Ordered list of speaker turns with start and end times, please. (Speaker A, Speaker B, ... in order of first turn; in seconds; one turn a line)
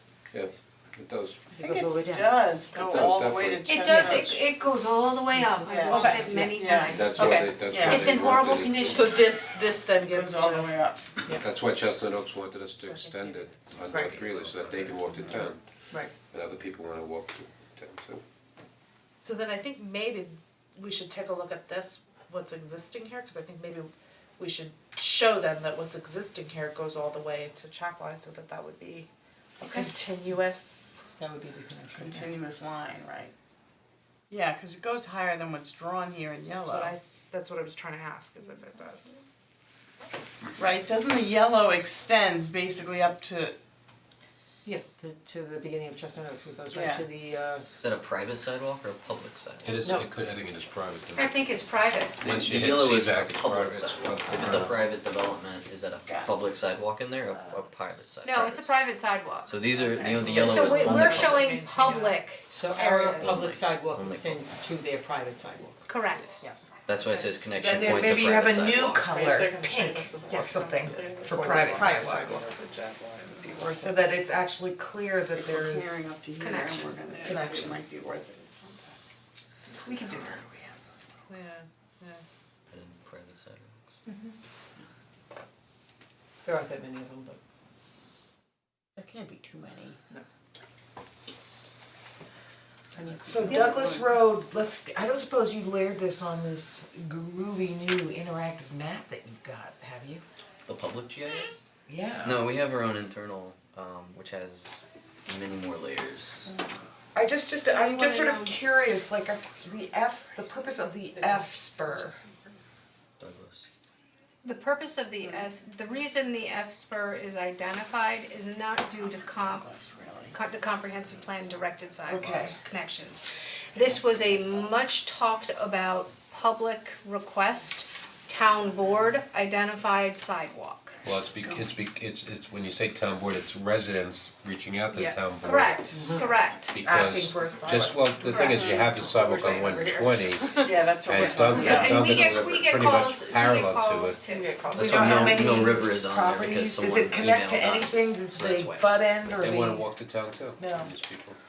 Speaker A: 0.3-1.4
Speaker B: 1.5-4.4
Speaker C: 1.5-3.1
Speaker A: 2.8-4.3
Speaker D: 3.6-9.3
Speaker C: 5.3-6.5
Speaker B: 5.7-8.4
Speaker E: 5.9-6.3
Speaker A: 6.8-9.1
Speaker E: 7.2-7.6
Speaker E: 8.9-10.7
Speaker B: 10.0-11.2
Speaker A: 11.3-15.7
Speaker E: 12.7-15.0
Speaker C: 13.9-14.2
Speaker B: 15.1-15.5
Speaker A: 16.3-18.2
Speaker E: 19.2-31.1
Speaker C: 31.2-32.4
Speaker B: 31.9-33.3
Speaker B: 34.3-36.9
Speaker E: 36.7-39.1
Speaker B: 40.6-43.6
Speaker C: 44.6-47.7
Speaker B: 46.7-47.1
Speaker F: 47.8-49.7
Speaker A: 49.6-51.5
Speaker C: 49.8-50.1
Speaker D: 51.1-52.4
Speaker A: 52.2-54.8
Speaker F: 52.2-58.8
Speaker B: 56.0-56.4
Speaker D: 58.2-63.3
Speaker F: 59.5-61.5
Speaker E: 59.7-62.2
Speaker C: 62.5-66.7
Speaker E: 62.8-63.5
Speaker F: 63.1-64.7
Speaker D: 65.9-66.4
Speaker F: 66.9-69.0
Speaker E: 66.9-68.3
Speaker G: 67.6-72.4
Speaker E: 68.9-73.3
Speaker C: 71.3-72.3
Speaker B: 71.6-72.5
Speaker B: 73.2-73.9
Speaker G: 73.6-76.1
Speaker B: 75.3-79.0
Speaker D: 76.4-77.0
Speaker G: 77.2-77.7
Speaker D: 79.8-80.4
Speaker E: 81.3-82.2
Speaker F: 82.7-83.9
Speaker D: 84.1-84.3
Speaker C: 86.4-87.4
Speaker B: 89.0-90.0
Speaker C: 93.0-93.5
Speaker G: 93.2-100.2
Speaker B: 93.4-94.0
Speaker D: 93.5-93.8
Speaker F: 100.7-101.6
Speaker G: 101.9-102.5
Speaker F: 102.2-106.5
Speaker G: 107.1-112.2
Speaker D: 107.7-108.6
Speaker F: 113.2-113.7
Speaker D: 114.4-119.7
Speaker B: 115.2-115.5
Speaker B: 119.0-120.4
Speaker D: 120.3-131.0
Speaker G: 122.1-122.6
Speaker A: 131.0-135.8
Speaker B: 131.1-131.7
Speaker B: 134.9-136.1
Speaker D: 135.4-136.7
Speaker C: 135.9-136.3
Speaker A: 136.7-144.2
Speaker G: 136.8-139.9
Speaker D: 138.2-138.8
Speaker E: 140.4-140.7
Speaker B: 140.6-142.1
Speaker D: 141.5-144.9
Speaker E: 141.6-141.9
Speaker F: 142.0-142.7
Speaker E: 144.3-145.6
Speaker F: 144.7-149.1
Speaker G: 144.8-149.9
Speaker A: 149.4-151.4
Speaker G: 150.6-150.9